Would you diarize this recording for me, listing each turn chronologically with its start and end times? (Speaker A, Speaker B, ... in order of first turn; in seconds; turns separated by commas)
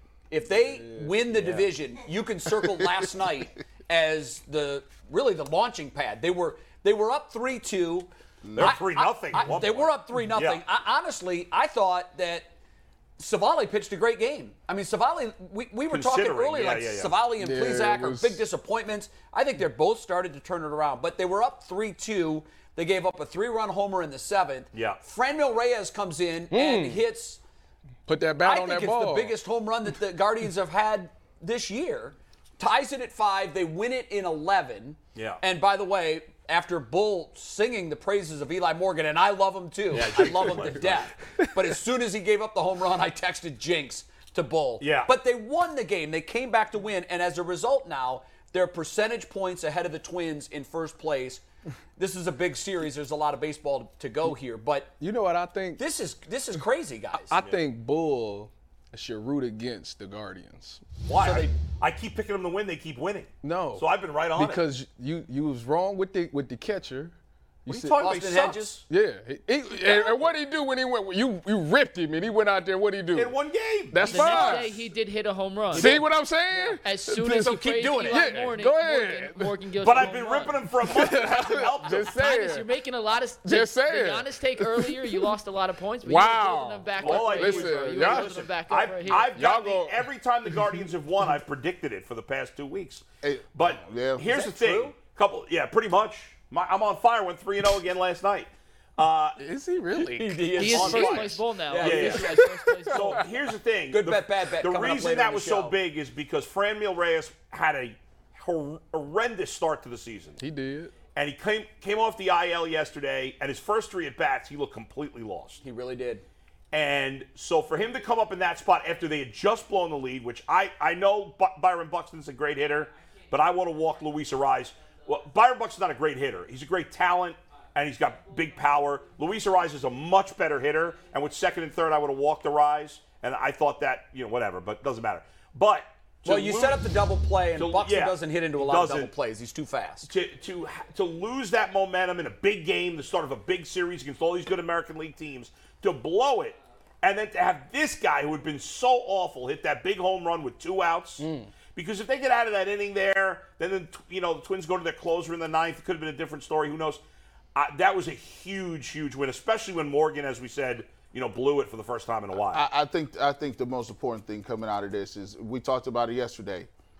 Speaker A: 0.3-12.5, Speaker B: 0.5-1.4, Speaker C: 8.4-8.8, Speaker D: 8.6-10.6, Speaker A: 13.2-27.4, Speaker D: 15.9-17.2, Speaker B: 17.4-18.4, Speaker D: 24.7-25.0, Speaker B: 26.5-27.1, Speaker B: 28.1-29.4, Speaker A: 28.4-51.4, Speaker D: 35.1-35.4, Speaker D: 39.9-41.1, Speaker B: 40.2-40.5, Speaker D: 44.8-45.1, Speaker A: 52.0-54.9, Speaker B: 55.0-55.8, Speaker A: 55.8-57.4, Speaker B: 57.1-60.8, Speaker D: 57.4-57.6, Speaker A: 61.1-61.6, Speaker D: 61.2-64.6, Speaker B: 63.4-63.9, Speaker B: 64.4-67.2, Speaker B: 67.7-68.0, Speaker D: 67.7-68.8, Speaker A: 68.0-68.8, Speaker B: 68.9-73.3, Speaker D: 73.1-74.8, Speaker B: 73.9-74.7, Speaker E: 74.0-75.9, Speaker A: 75.7-76.8, Speaker B: 75.7-77.5, Speaker E: 76.8-80.7, Speaker A: 77.4-78.5, Speaker B: 78.1-79.5, Speaker D: 79.8-82.2, Speaker B: 80.8-82.7, Speaker E: 82.1-89.3, Speaker B: 83.4-85.3, Speaker B: 86.0-88.3, Speaker D: 87.0-93.0, Speaker B: 89.3-90.0, Speaker C: 93.2-94.3, Speaker D: 93.5-99.4, Speaker A: 94.2-95.0, Speaker B: 99.4-100.7, Speaker A: 100.1-102.5, Speaker E: 100.6-103.2, Speaker D: 100.6-110.4, Speaker A: 103.9-105.8, Speaker B: 110.4-110.9, Speaker D: 111.1-115.6, Speaker A: 115.6-116.2, Speaker D: 116.7-136.9, Speaker A: 136.2-140.1, Speaker D: 137.6-139.1, Speaker D: 140.1-157.0, Speaker B: 151.2-151.5, Speaker D: 157.6-162.7, Speaker C: 162.5-166.7